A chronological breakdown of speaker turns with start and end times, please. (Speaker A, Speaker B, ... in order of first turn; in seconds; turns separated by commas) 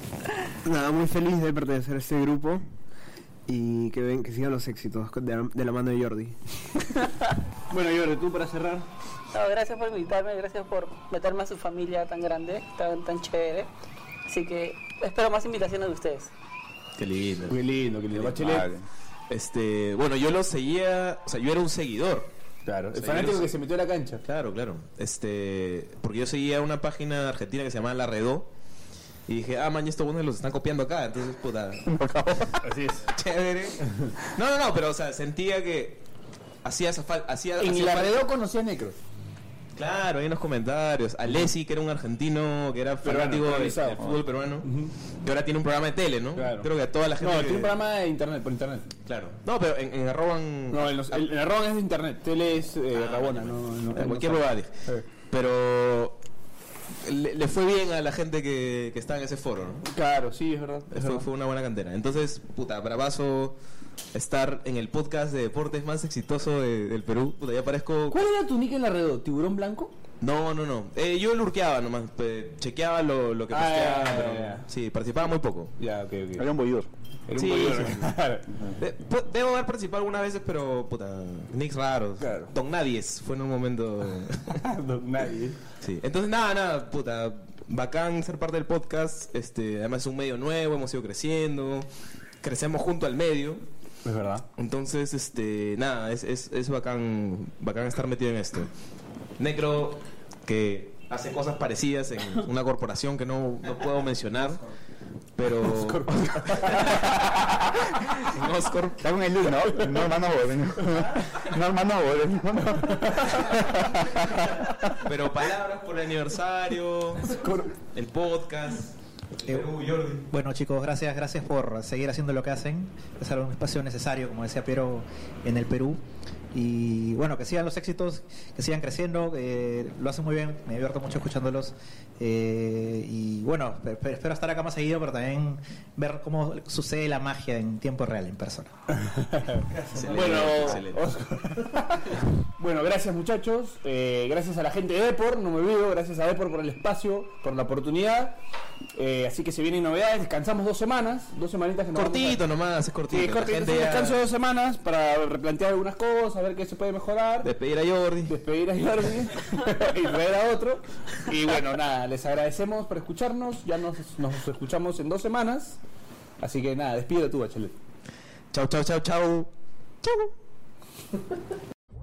Speaker A: 0.6-2.6, Speaker A: 3.5-6.4, Speaker B: 7.7-8.9, Speaker C: 9.3-13.7, Speaker C: 14.3-16.3, Speaker D: 17.0-17.6, Speaker B: 17.5-18.7, Speaker E: 18.4-18.9, Speaker D: 19.3-22.3, Speaker B: 22.6-24.2, Speaker D: 22.9-23.5, Speaker D: 24.2-28.5, Speaker D: 29.3-32.0, Speaker E: 31.9-32.5, Speaker B: 32.6-33.0, Speaker D: 33.1-36.0, Speaker D: 36.6-38.3, Speaker B: 37.6-39.0, Speaker D: 39.7-44.7, Speaker B: 43.0-44.9, Speaker D: 45.2-47.8, Speaker B: 46.4-46.7, Speaker B: 47.2-48.9, Speaker D: 49.0-51.3, Speaker B: 50.7-55.0, Speaker D: 52.9-54.8, Speaker D: 55.3-56.2, Speaker D: 57.0-59.8, Speaker B: 59.8-61.2, Speaker D: 60.9-63.6, Speaker D: 64.1-68.2, Speaker B: 68.1-69.9, Speaker D: 70.2-75.7, Speaker B: 73.5-74.6, Speaker B: 75.8-76.4, Speaker E: 76.4-76.9, Speaker B: 77.3-78.5, Speaker D: 77.3-78.1, Speaker D: 78.8-84.6, Speaker B: 82.2-82.5, Speaker B: 84.5-85.6, Speaker D: 85.8-91.9, Speaker D: 92.4-93.6, Speaker B: 94.0-94.4, Speaker D: 94.5-98.7, Speaker D: 99.4-104.6, Speaker D: 105.3-107.3, Speaker B: 105.6-107.5, Speaker D: 108.1-109.1, Speaker E: 109.0-114.6, Speaker D: 115.0-117.4, Speaker B: 117.3-117.7, Speaker D: 117.9-118.9, Speaker D: 119.5-120.3, Speaker F: 120.3-126.0, Speaker F: 126.5-138.7, Speaker B: 139.0-148.4, Speaker D: 139.9-141.0, Speaker B: 148.9-152.4, Speaker D: 151.9-154.2, Speaker B: 153.1-157.5, Speaker D: 157.4-158.4, Speaker B: 158.3-165.8, Speaker B: 166.4-167.7, Speaker D: 168.5-169.5, Speaker D: 170.0-170.3